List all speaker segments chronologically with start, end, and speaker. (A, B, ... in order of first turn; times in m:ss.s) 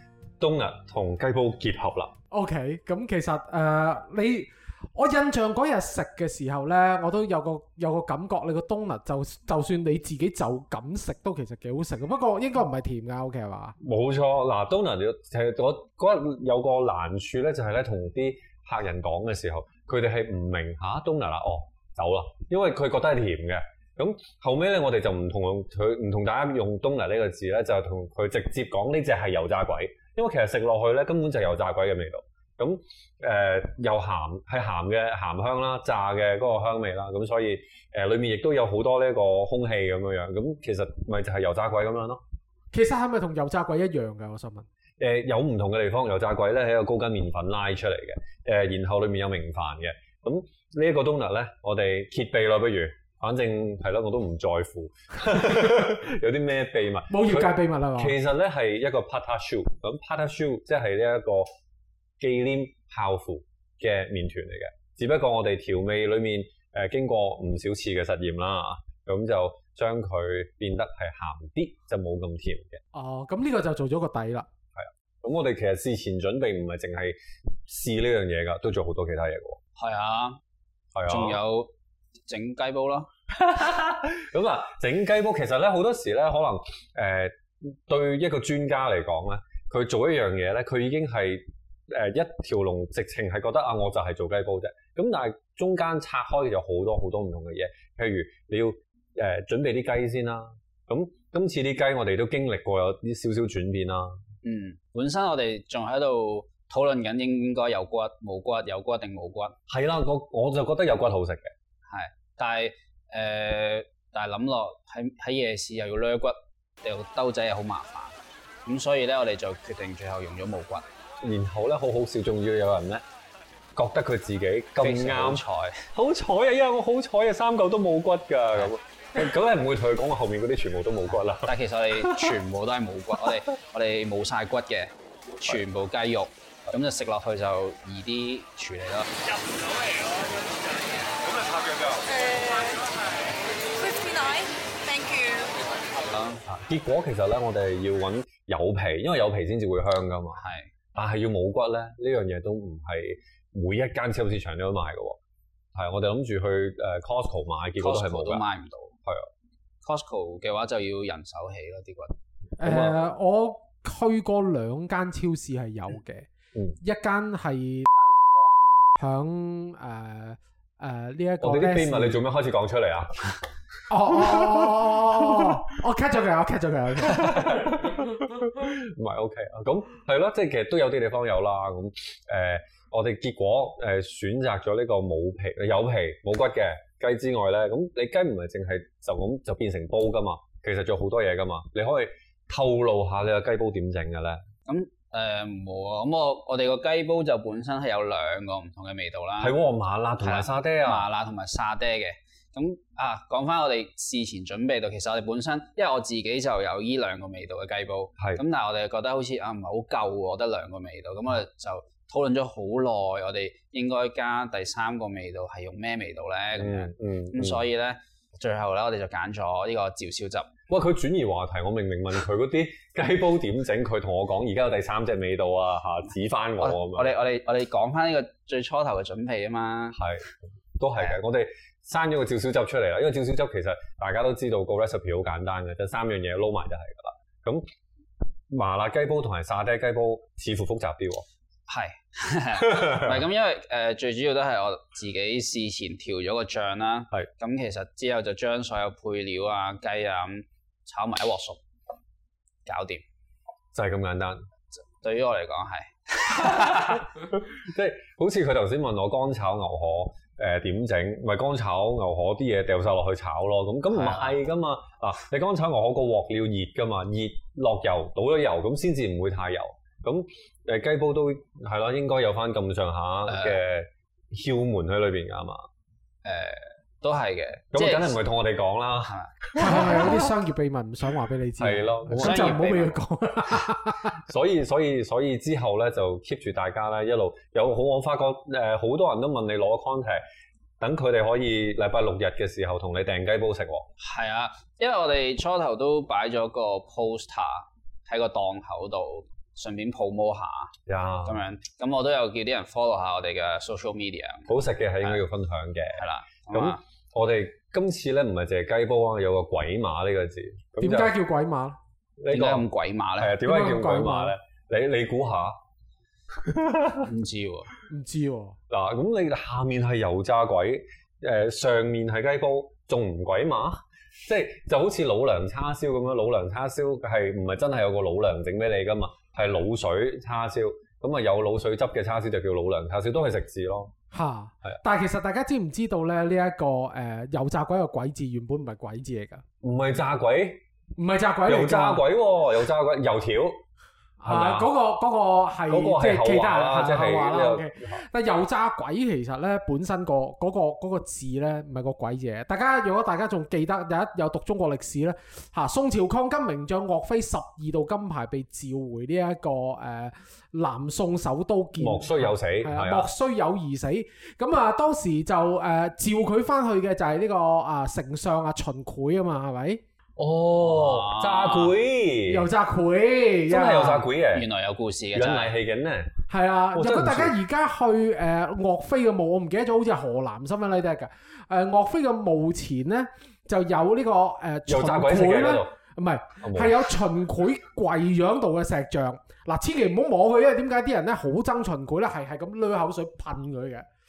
0:00.4-0:02.1 A
0:02.3-0:13.8 B
0:13.8-0:42.2 A
0:42.7-0:44.6 B
0:45.0-1:01.5 A
0:57.1-0:58.1 B
1:02.2-1:12.8 A
1:12.9-1:14.5 B
1:14.7-1:19.6 A
1:19.8-1:20.4 C
1:20.9-1:21.4 A
1:21.1-1:21.7 C
1:22.2-1:23.1 C
1:23.3-1:44.2 A
1:44.4-1:49.6 C
1:49.7-1:51.5 A
1:51.9-2:00.8 C
2:01.2-2:03.0 A
2:03.7-2:12.4 A
2:04.8-2:05.9 C
2:11.4-2:19.1 C
2:21.2-2:22.5 A
2:26.1-2:26.4 C
2:26.4-2:30.4 A
2:30.4-2:30.7 C
2:30.9-2:35.2 A
2:35.7-2:38.4 A
2:37.8-2:38.9 C
2:39.8-2:42.1 C
2:42.6-2:46.3 B
2:42.7-2:42.9 A
2:46.8-2:47.9 B
2:49.0-2:52.2 B
2:51.4-2:53.4 A
2:53.9-2:57.8 B
2:54.1-2:55.6 A
2:57.0-3:14.4 A
3:14.7-3:19.6 C
3:19.4-3:21.1 A
3:20.2-3:40.5 C
3:36.6-3:37.7 A
3:40.7-3:47.1 A
3:46.6-3:50.0 C
3:49.9-3:57.7 A
3:58.5-4:01.2 A
4:01.7-4:11.6 C
4:02.6-4:03.2 A
4:12.6-4:13.0 C
4:13.7-4:14.4 A
4:15.0-4:17.0 C
4:16.3-4:35.6 A
4:23.9-4:24.4 C
4:33.3-4:33.6 C
4:36.2-4:38.2 C
4:37.7-4:40.2 A
4:39.0-4:40.0 C
4:39.5-4:44.2 B
4:41.6-4:42.6 A
4:42.2-4:43.0 C
4:44.2-4:50.2 A
4:50.8-4:53.9 A
4:54.0-5:05.2 C
5:00.9-5:01.4 A
5:04.5-5:11.1 A
5:05.9-5:06.8 C
5:10.8-5:11.8 B
5:12.2-5:15.6 A
5:12.3-5:13.4 C
5:13.4-5:14.3 B
5:16.3-5:17.1 A
5:17.0-5:17.7 C
5:17.9-5:18.6 B
5:18.7-5:33.9 A
5:34.1-5:39.4 B
5:39.6-5:40.6 A
5:41.0-5:42.0 B
5:41.4-5:43.6 A
5:44.2-6:09.8 B
5:44.2-5:44.7 A
5:45.7-5:48.0 A
6:01.8-6:03.1 A
6:10.2-6:12.5 A
6:10.6-6:11.8 C
6:12.3-6:14.1 B
6:13.5-6:14.5 A
6:14.3-6:15.5 C
6:15.1-6:16.1 A
6:16.3-6:33.8 B
6:16.7-6:17.3 A
6:24.7-6:25.7 A
6:26.4-6:26.8 A